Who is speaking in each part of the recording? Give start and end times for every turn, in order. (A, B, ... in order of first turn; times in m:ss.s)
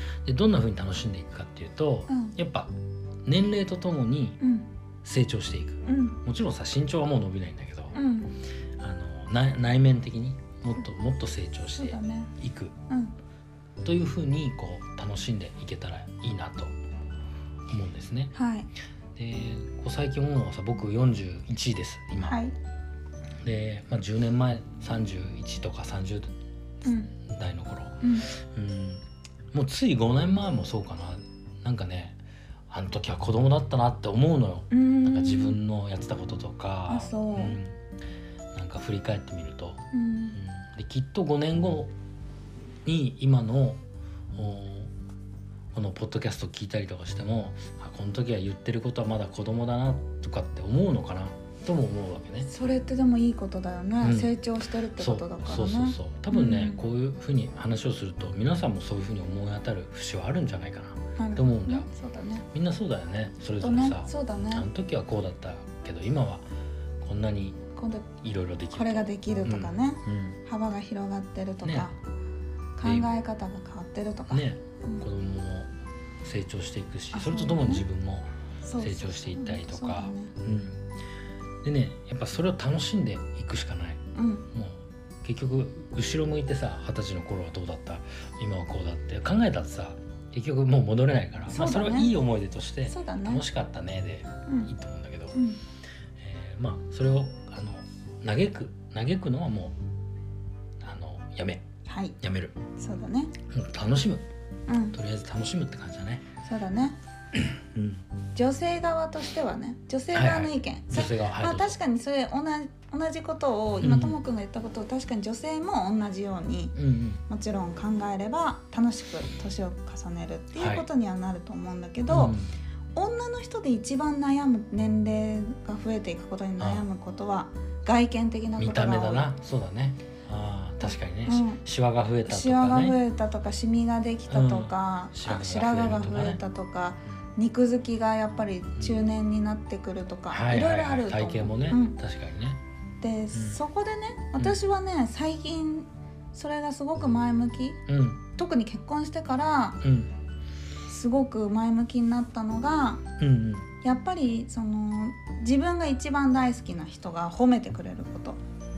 0:00.2-0:02.7 A
0:02.1-0:02.4 B
0:03.2-0:04.4 A
0:04.4-0:04.7 B
0:05.0-0:08.0 A
0:05.9-0:06.2 B
0:08.0-0:08.3 B
0:08.8-0:12.8 A
0:11.8-0:12.3 B
0:12.9-0:13.1 B
0:13.8-0:16.7 A
0:17.7-0:18.3 A
0:18.3-0:18.7 B
0:19.2-0:22.4 A
0:22.2-0:22.6 B
0:23.4-0:26.3 A
0:26.8-0:27.1 B
0:27.3-0:32.2 A
0:28.0-0:28.3 B
0:32.7-0:37.8 A
0:34.7-0:35.6 B
0:36.9-0:37.6 B
0:38.6-0:41.9 A
0:39.9-0:40.4 B
0:42.8-0:43.8 A
0:44.3-0:44.9 A
0:45.7-0:52.5 A
0:52.5-0:56.8 B
0:54.0-0:54.3 A
0:55.0-1:01.9 A
1:01.2-1:02.5 B
1:02.5-1:06.4 A
1:03.6-1:04.7 B
1:07.0-1:07.6 A
1:07.8-1:08.1 B
1:08.2-1:10.4 A
1:08.7-1:12.0 B
1:11.6-1:11.9 A
1:12.8-1:15.0 B
1:12.8-1:13.1 A
1:14.3-1:15.7 A
1:16.2-1:20.8 A
1:17.1-1:17.9 B
1:18.6-1:20.3 B
1:21.6-1:24.0 A
1:24.2-1:24.5 B
1:24.5-1:35.4 A
1:31.5-1:32.1 B
1:32.9-1:33.4 B
1:35.3-1:35.6 B
1:36.2-1:39.8 A
1:40.8-1:41.6 A
1:41.9-1:42.2 B
1:42.2-1:42.6 A
1:42.8-1:43.3 B
1:43.5-1:44.2 A
1:44.7-1:45.0 B
1:44.9-1:46.3 A
1:46.4-1:47.0 B
1:47.3-1:48.0 A
1:48.4-1:56.8 B
1:50.1-1:51.8 A
1:53.8-1:54.2 A
1:56.8-1:57.2 A
1:57.3-2:02.4 B
2:00.6-2:00.9 A
2:02.1-2:02.5 A
2:03.0-2:09.3 B
2:06.6-2:06.8 A
2:08.6-2:13.0 A
2:11.3-2:11.6 B
2:12.2-2:22.0 B
2:14.3-2:16.4 A
2:20.3-2:22.6 A
2:23.0-2:27.8 B
2:23.3-2:23.6 A
2:27.9-2:28.2 A
2:28.3-2:29.8 B
2:29.8-2:30.1 A
2:30.9-2:33.0 B
2:33.2-2:33.7 A
2:33.8-2:38.4 B